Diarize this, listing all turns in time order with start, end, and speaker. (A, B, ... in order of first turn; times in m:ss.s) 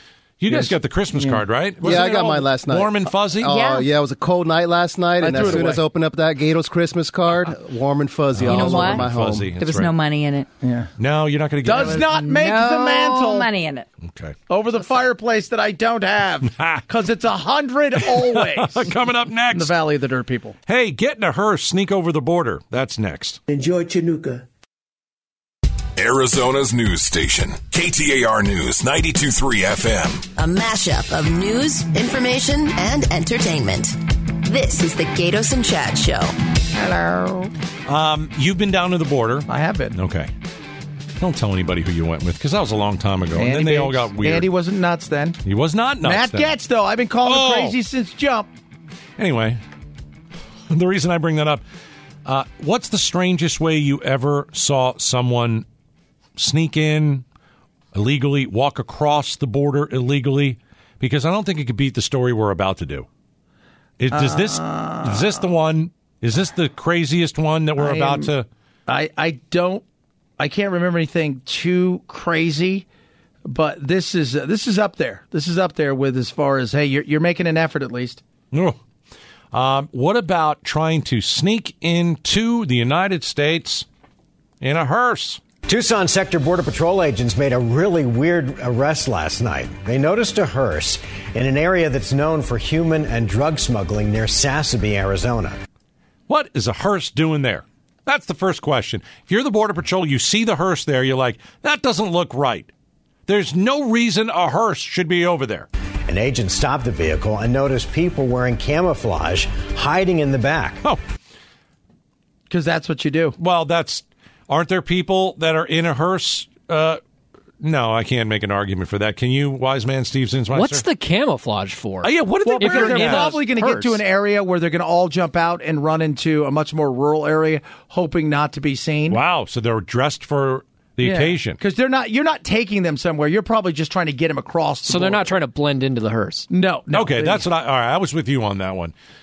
0:00.4-0:03.5 A
0:00.5-0:01.4 B
0:01.8-0:09.5 C
0:03.5-0:03.9 D
0:05.2-0:05.8 B
0:08.4-0:09.9 A
0:08.5-0:10.5 D
0:10.6-0:10.9 B
0:11.0-0:12.1 A
0:11.6-0:13.5 B
0:11.8-0:13.9 D
0:14.0-0:14.4 A
0:14.5-0:18.9 B
0:16.6-0:16.8 A
0:18.0-0:19.7 A
0:19.5-0:20.6 B
0:20.7-0:23.4 A
0:26.0-0:30.3 E
0:30.4-0:36.3 F
0:36.8-0:37.5 B
0:37.9-0:40.3 A
0:39.5-0:40.0 B
0:41.2-0:44.5 A
0:43.4-0:45.4 B
0:45.4-0:46.5 A
0:46.0-0:48.5 B
0:47.2-0:47.8 A
0:49.2-0:49.6 A
0:50.7-0:51.6 A
0:52.2-0:55.6 A
0:56.4-0:57.2 A
0:57.9-1:03.1 A
1:04.0-1:08.5 A
1:04.1-1:05.4 B
1:07.8-1:08.3 B
1:08.9-1:09.8 B
1:10.4-1:12.9 B
1:13.5-1:18.2 B
1:18.5-1:18.8 A
1:19.5-1:23.9 A
1:24.6-1:25.4 A
1:25.7-1:35.6 G
1:36.3-1:42.7 A
1:43.3-1:45.7 A
1:46.1-1:50.8 G
1:52.5-1:53.4 B
1:53.4-1:57.0 A
1:57.6-2:00.9 A
2:00.5-2:04.0 H
2:02.0-2:03.4 A
2:02.5-2:09.2 B
2:09.1-2:11.6 A
2:11.0-2:15.4 B
2:14.9-2:16.5 H
2:16.5-2:17.4 B
2:16.9-2:18.9 A